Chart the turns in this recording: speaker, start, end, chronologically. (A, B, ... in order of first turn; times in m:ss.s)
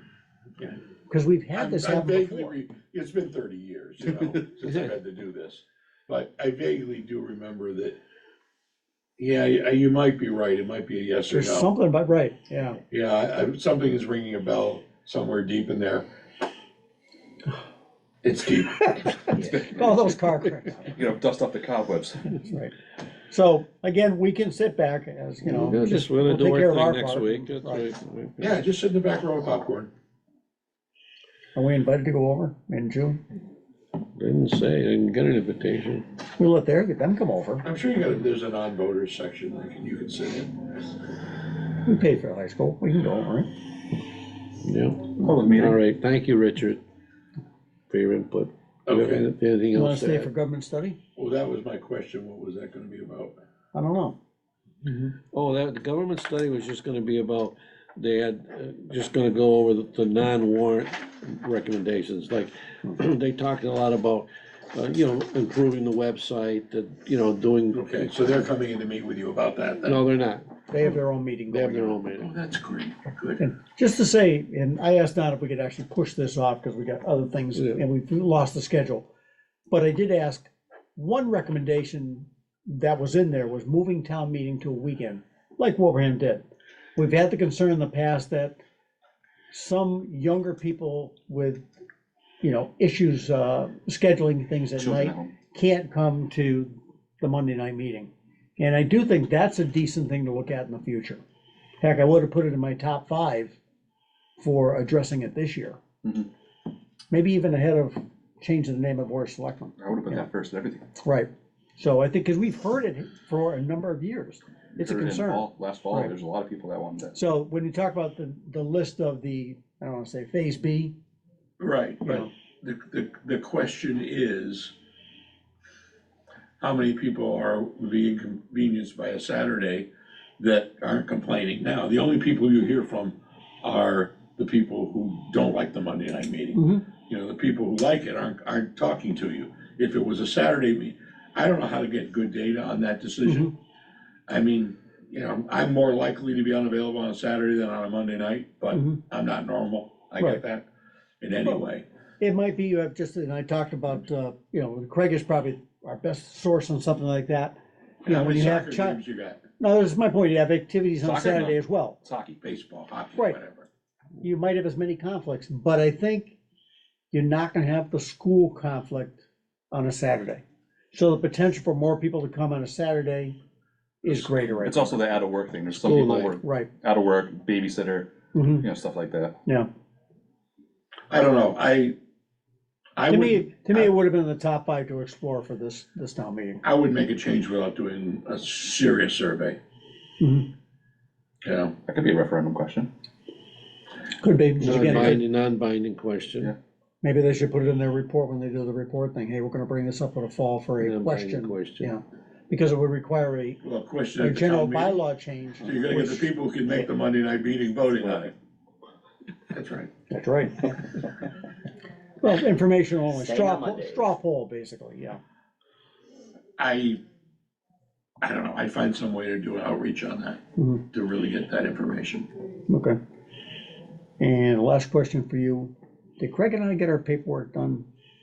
0:01.1-0:02.5 A
0:01.5-0:08.0 B
0:04.6-0:04.9 C
0:09.2-0:11.7 B
0:11.3-0:12.8 A
0:12.9-0:16.1 B
0:18.2-0:19.1 B
0:19.0-0:20.9 A
0:19.3-0:22.3 D
0:22.4-0:22.8 A
0:23.3-0:27.9 A
0:25.4-0:28.6 C
0:28.4-0:29.9 B
0:31.6-0:33.2 A
0:34.2-0:36.0 C
0:36.4-0:37.6 A
0:37.6-0:40.5 B
0:41.8-0:43.5 A
0:44.6-0:46.8 C
0:45.2-0:45.8 D
0:47.9-0:50.3 C
0:48.9-0:49.3 B
0:49.7-0:51.0 A
0:51.2-0:53.4 B
0:53.7-0:54.2 A
0:55.3-1:08.1 C
1:07.7-1:10.0 B
1:09.8-1:10.9 C
1:10.7-1:12.0 A
1:11.5-1:12.3 C
1:11.5-1:13.4 B
1:13.4-1:19.1 A
1:19.7-1:26.4 A
1:27.0-1:28.6 A
1:29.5-1:31.6 A
1:32.4-1:41.2 A
1:34.8-1:35.3 D
1:41.8-1:43.6 A
1:44.4-1:45.8 A
1:46.0-1:46.3 D
1:47.1-1:50.3 A
1:49.8-1:50.8 D
1:51.0-1:56.1 A
1:54.8-1:57.1 D
1:57.1-2:01.0 A
2:01.6-2:04.7 B
2:02.0-2:02.3 A
2:06.6-2:23.5 B
2:16.6-2:16.9 A
2:23.3-2:23.5 A
2:24.3-2:30.6 B
2:28.7-2:29.0 A
2:31.2-2:31.8 B
2:32.2-2:39.0 A
2:38.0-2:39.4 B
2:39.6-2:42.0 A
2:41.0-2:42.4 D
2:42.4-2:43.7 B
2:44.2-2:46.4 A
2:47.1-2:49.2 A
2:49.7-2:50.4 A
2:50.9-2:53.4 A
2:54.0-2:55.2 A
2:54.1-2:59.4 D
2:55.7-2:56.4 C
2:56.4-2:56.7 A
2:58.3-2:58.7 A
3:01.1-3:02.0 B
3:03.0-3:03.9 B
3:03.1-3:06.6 A
3:06.6-3:09.6 B
3:10.2-3:10.5 A
3:11.4-3:11.7 B
3:11.8-3:12.9 D
3:14.2-3:15.2 A
3:14.6-3:16.5 C
3:17.0-3:23.6 A
3:20.8-3:21.9 C
3:23.6-3:25.0 B
3:24.2-3:26.9 A
3:25.6-3:28.3 B
3:29.5-3:29.9 B
3:30.1-3:30.9 A
3:32.2-3:35.2 A
3:36.6-3:37.0 B
3:38.2-3:40.4 B
3:40.6-3:40.8 A
3:40.9-3:42.3 B
3:42.7-3:43.0 A
3:44.2-3:47.8 A